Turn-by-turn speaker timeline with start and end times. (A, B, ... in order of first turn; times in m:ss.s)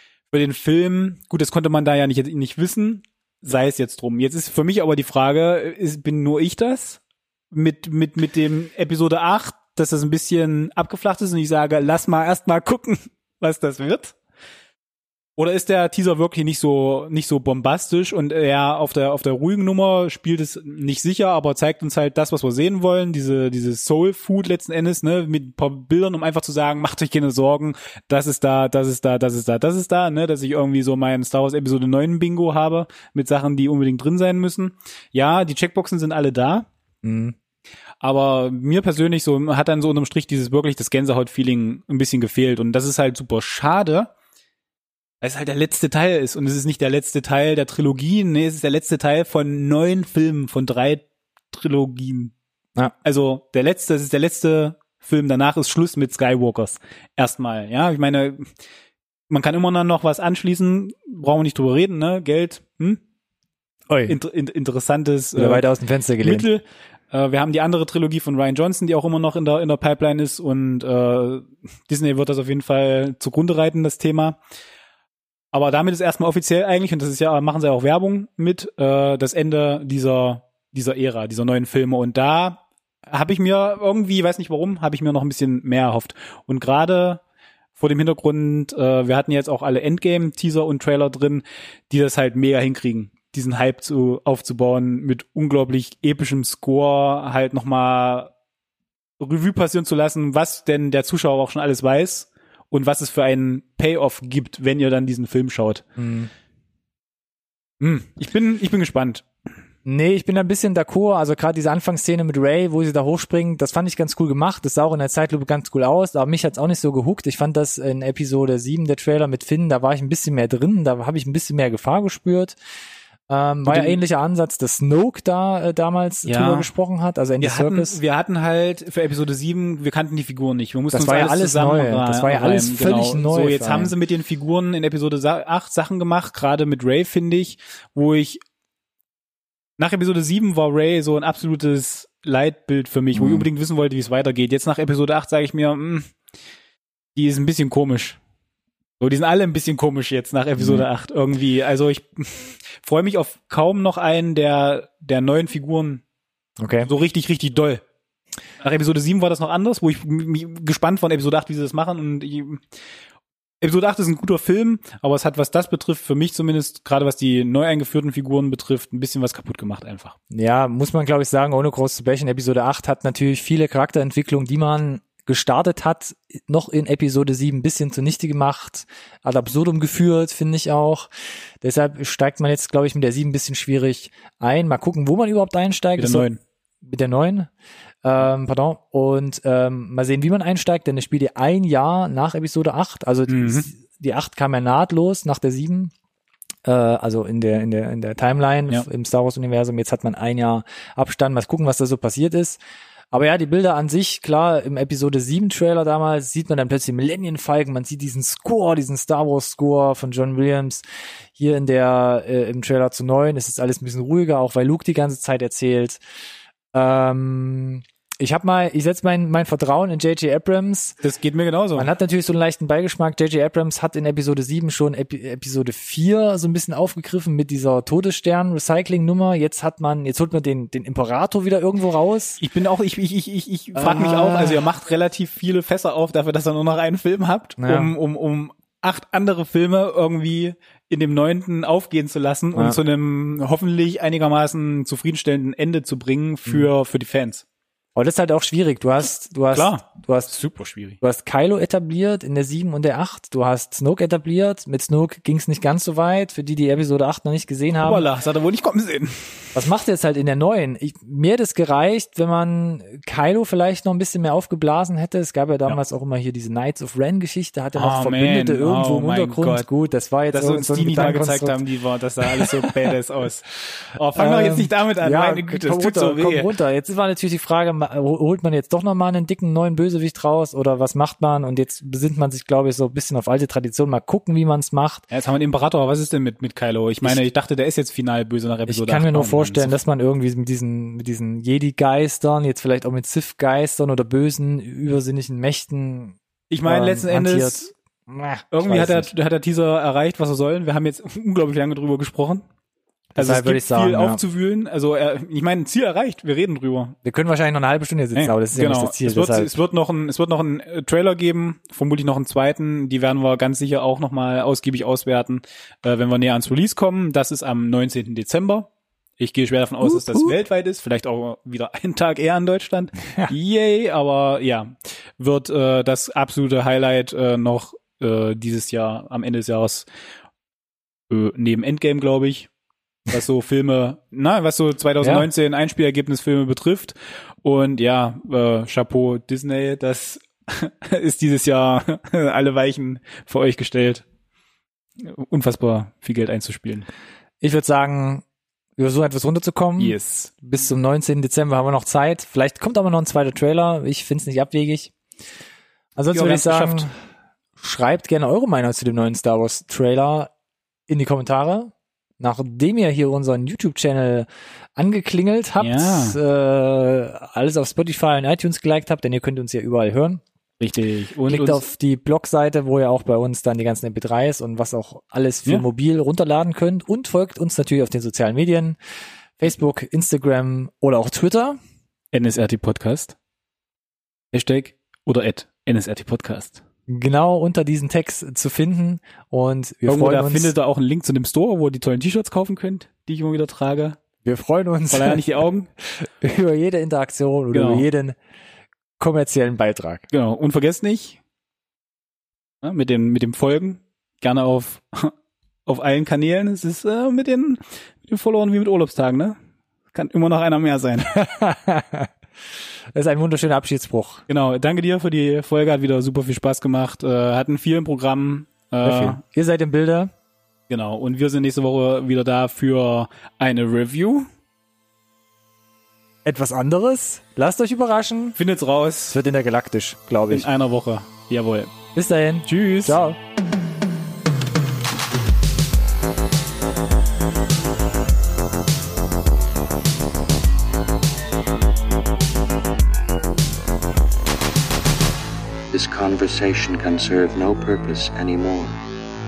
0:00.3-0:14.2 A
0:15.4-0:36.7 A
0:37.0-0:37.4 B
0:38.0-0:44.1 A
0:45.2-0:52.3 A
0:53.0-0:58.5 A
0:59.3-1:03.0 A
1:03.9-1:04.2 B
1:04.1-1:05.6 A
1:05.4-1:06.5 B
1:06.2-1:14.4 A
1:15.5-1:27.2 A
1:27.8-1:38.3 A
1:39.2-1:45.9 A
1:46.0-1:46.3 B
1:47.8-1:49.3 A
1:49.8-2:02.6 B
2:03.3-2:08.0 B
2:03.6-2:04.0 A
2:06.3-2:06.7 A
2:07.4-2:18.4 A
2:10.9-2:13.9 B
2:19.8-2:26.1 A
2:23.1-2:23.4 B
2:27.2-2:28.2 A
2:29.0-2:36.0 A
2:30.6-2:30.9 B
2:36.6-2:36.9 B
2:36.8-2:37.8 A
2:38.6-2:42.6 A
2:43.6-2:50.2 A
2:50.3-3:01.1 B
3:01.6-3:06.3 B
3:06.0-3:06.4 A
3:06.8-3:07.5 B
3:08.0-3:15.9 B
3:13.3-3:13.7 A
3:16.7-3:22.6 B
3:23.1-3:30.8 B
3:31.4-3:36.0 B
3:36.7-3:41.0 B
3:41.0-3:41.9 A
3:41.8-3:52.4 B
3:52.4-4:07.4 A
3:53.8-3:54.6 B
3:57.6-3:57.9 B
4:02.5-4:02.8 B
4:08.0-4:10.3 B
4:09.5-4:11.0 A
4:11.0-4:18.0 B
4:17.8-4:19.6 A
4:19.6-4:31.6 B
4:27.8-4:29.7 A
4:30.3-4:36.5 A
4:32.3-4:32.7 B
4:34.2-4:45.1 B
4:45.1-4:49.7 A
4:48.7-4:59.1 B
4:56.5-4:57.7 A
4:58.5-5:02.4 A
5:03.2-5:04.2 B
5:03.2-5:07.0 A
5:07.0-5:09.5 B
5:08.2-5:29.9 A
5:19.9-5:20.3 B
5:31.1-5:32.5 A
5:33.1-5:44.0 A
5:35.0-5:35.3 B
5:45.0-5:46.9 A
5:47.4-5:48.2 B
5:48.8-5:54.9 B
5:49.8-5:50.3 A
5:56.0-5:56.9 B
5:56.1-5:56.9 A
5:57.6-6:00.3 B
6:00.9-6:10.2 B
6:05.6-6:06.2 A
6:10.6-6:11.6 A
6:11.3-6:18.8 B
6:19.4-6:21.6 B
6:22.1-6:23.2 A
6:24.3-6:26.6 A
6:26.9-6:30.5 B
6:29.9-6:34.0 A
6:34.2-6:35.3 B
6:34.9-6:35.7 A
6:35.9-6:38.2 B
6:37.5-6:37.9 A
6:39.0-6:40.1 B
6:40.1-6:41.2 A
6:42.6-6:45.1 A
6:45.7-6:49.4 A
6:49.9-6:51.2 A
6:51.1-6:52.1 B
6:53.0-6:54.2 B
6:54.3-6:59.2 A
6:58.8-7:00.1 B
7:00.7-7:04.3 A
7:06.2-7:08.4 B
7:08.4-7:09.2 A
7:09.1-7:10.5 B
7:10.3-7:11.7 A
7:12.0-7:13.2 B
7:12.5-7:13.0 A
7:25.7-7:28.8 C